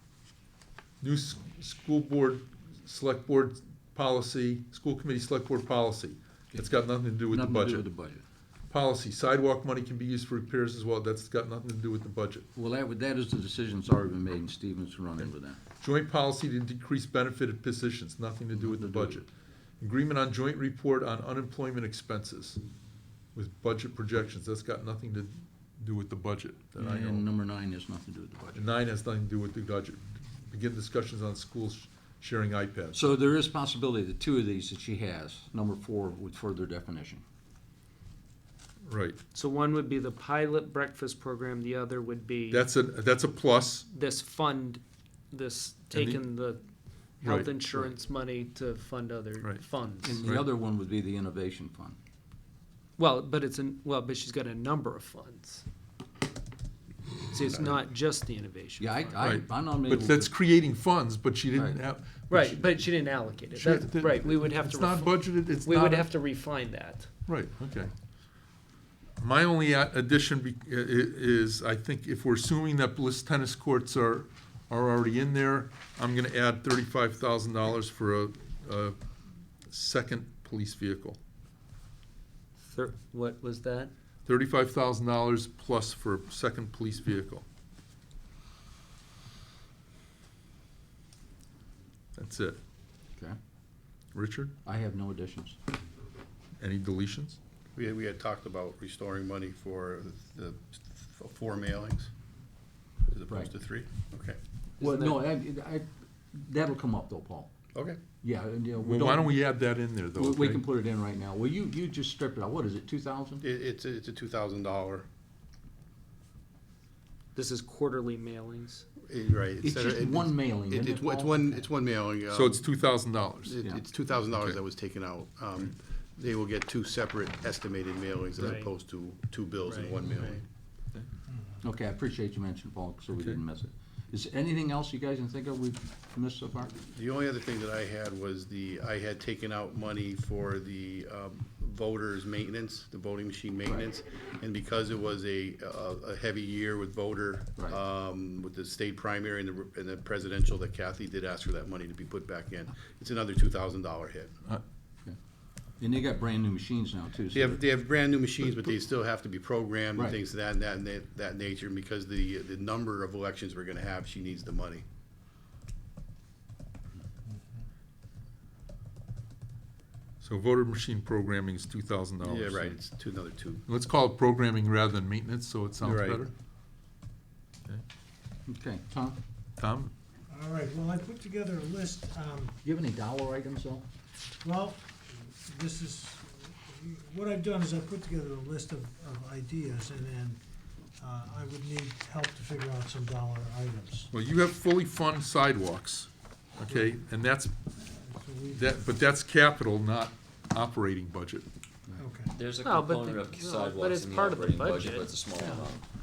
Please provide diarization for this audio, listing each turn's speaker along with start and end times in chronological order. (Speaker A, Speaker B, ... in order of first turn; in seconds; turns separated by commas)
Speaker A: 1.0-7.8, Speaker B: 7.3-8.2, Speaker A: 8.7-12.5, Speaker B: 12.5-15.6, Speaker A: 15.2-19.3, Speaker B: 18.5-19.2, Speaker A: 19.8-22.6, Speaker A: 23.3-27.3, Speaker B: 26.8-28.7, Speaker A: 28.5-33.0, Speaker B: 32.9-37.2, Speaker A: 38.8-39.2, Speaker C: 39.3-42.6, Speaker A: 42.5-43.9, Speaker C: 43.9-46.6, Speaker A: 45.9-46.2, Speaker A: 47.2-47.6, Speaker C: 47.2-50.2, Speaker B: 50.0-52.0, Speaker C: 53.0-55.6, Speaker C: 57.3-59.2, Speaker B: 58.8-60.3, Speaker A: 59.2-62.8, Speaker B: 61.5-61.8, Speaker C: 62.3-67.1, Speaker A: 63.4-66.1, Speaker A: 67.2-67.9, Speaker A: 69.2-79.0, Speaker A: 79.7-81.2, Speaker C: 82.6-83.9, Speaker A: 84.2-87.4, Speaker A: 92.2-92.6, Speaker A: 94.1-94.5, Speaker B: 94.6-95.6, Speaker A: 96.6-97.4, Speaker D: 97.7-102.1, Speaker D: 103.0-104.4, Speaker B: 103.3-103.5, Speaker C: 104.8-105.3, Speaker B: 104.8-107.5, Speaker D: 107.7-108.0, Speaker B: 108.2-109.4, Speaker A: 108.8-110.6, Speaker B: 110.1-113.4, Speaker D: 113.4-115.0, Speaker C: 117.3-118.8, Speaker D: 119.1-122.7, Speaker B: 119.6-121.7, Speaker A: 122.3-123.6, Speaker D: 123.4-130.4, Speaker A: 124.3-124.6, Speaker C: 128.4-128.7, Speaker C: 129.7-129.9, Speaker B: 131.6-136.7, Speaker D: 136.8-154.3, Speaker B: 155.8-157.6, Speaker D: 157.3-164.8, Speaker A: 170.2-172.8, Speaker D: 172.2-173.6, Speaker A: 173.7-176.3, Speaker D: 175.8-176.3, Speaker B: 178.5-179.2, Speaker A: 179.6-179.9, Speaker E: 180.3-182.5, Speaker B: 182.6-183.8, Speaker E: 184.4-184.8, Speaker E: 185.4-190.4, Speaker E: 191.0-194.1, Speaker A: 194.1-197.6, Speaker E: 198.0-198.6, Speaker A: 198.5-201.4, Speaker E: 202.0-202.3, Speaker F: 202.3-205.8, Speaker C: 202.6-205.6